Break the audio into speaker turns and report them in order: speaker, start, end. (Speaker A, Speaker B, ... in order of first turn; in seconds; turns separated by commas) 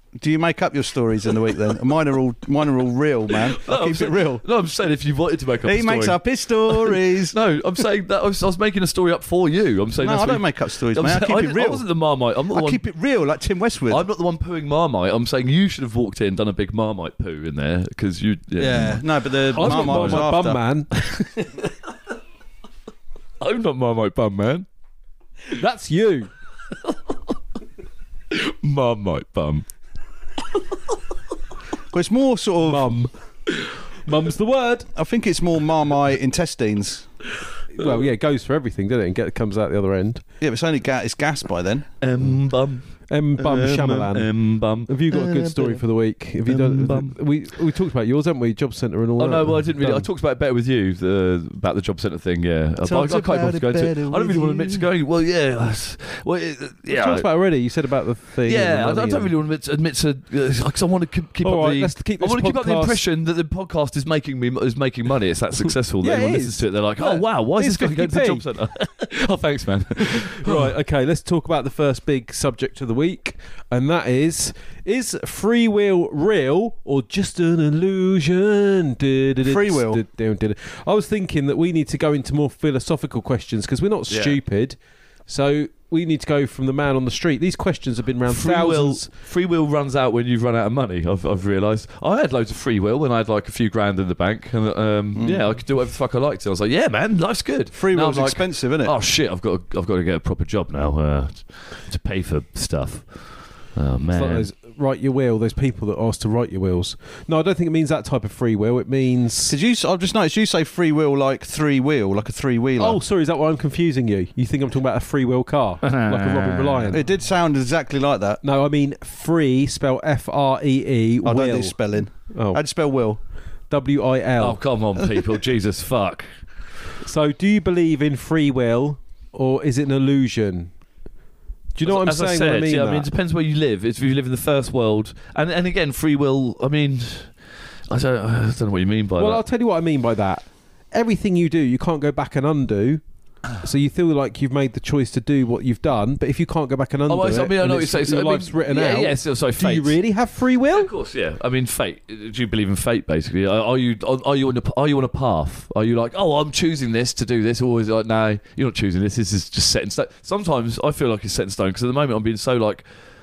Speaker A: 0.2-4.4, Speaker B: 3.5-12.8, Speaker A: 5.6-7.4, Speaker A: 10.0-11.8, Speaker A: 12.5-14.1, Speaker B: 13.9-20.3, Speaker A: 18.6-20.6, Speaker C: 19.5-20.9, Speaker B: 20.9-21.7, Speaker B: 23.4-24.6, Speaker C: 25.5-26.3, Speaker B: 28.3-29.6, Speaker A: 31.9-33.0, Speaker C: 32.6-33.1, Speaker C: 34.0-34.9, Speaker A: 34.9-37.1, Speaker C: 37.7-40.2, Speaker A: 40.4-41.9, Speaker B: 42.0-45.8, Speaker C: 43.1-44.3, Speaker C: 44.9-50.1, Speaker B: 46.5-47.1, Speaker B: 49.2-57.2, Speaker A: 52.8-54.9, Speaker C: 56.9-59.3, Speaker B: 58.4-70.7, Speaker C: 61.4-63.0, Speaker C: 66.0-68.4, Speaker C: 70.1-89.1, Speaker A: 79.4-80.0, Speaker B: 84.1-84.4, Speaker B: 88.2-104.5, Speaker A: 95.2-95.5, Speaker A: 97.7-98.9, Speaker C: 104.1-109.5, Speaker A: 109.5-113.0, Speaker C: 112.8-117.0, Speaker B: 115.8-117.0, Speaker A: 116.9-118.4, Speaker C: 118.4-121.7, Speaker A: 121.2-123.2, Speaker C: 122.3-122.6, Speaker C: 123.7-124.6, Speaker B: 124.4-126.3, Speaker C: 127.0-130.7, Speaker C: 131.7-133.1, Speaker B: 131.8-137.3, Speaker B: 137.9-139.4, Speaker C: 139.2-143.0, Speaker C: 143.6-150.9, Speaker B: 147.1-150.0, Speaker B: 150.7-162.8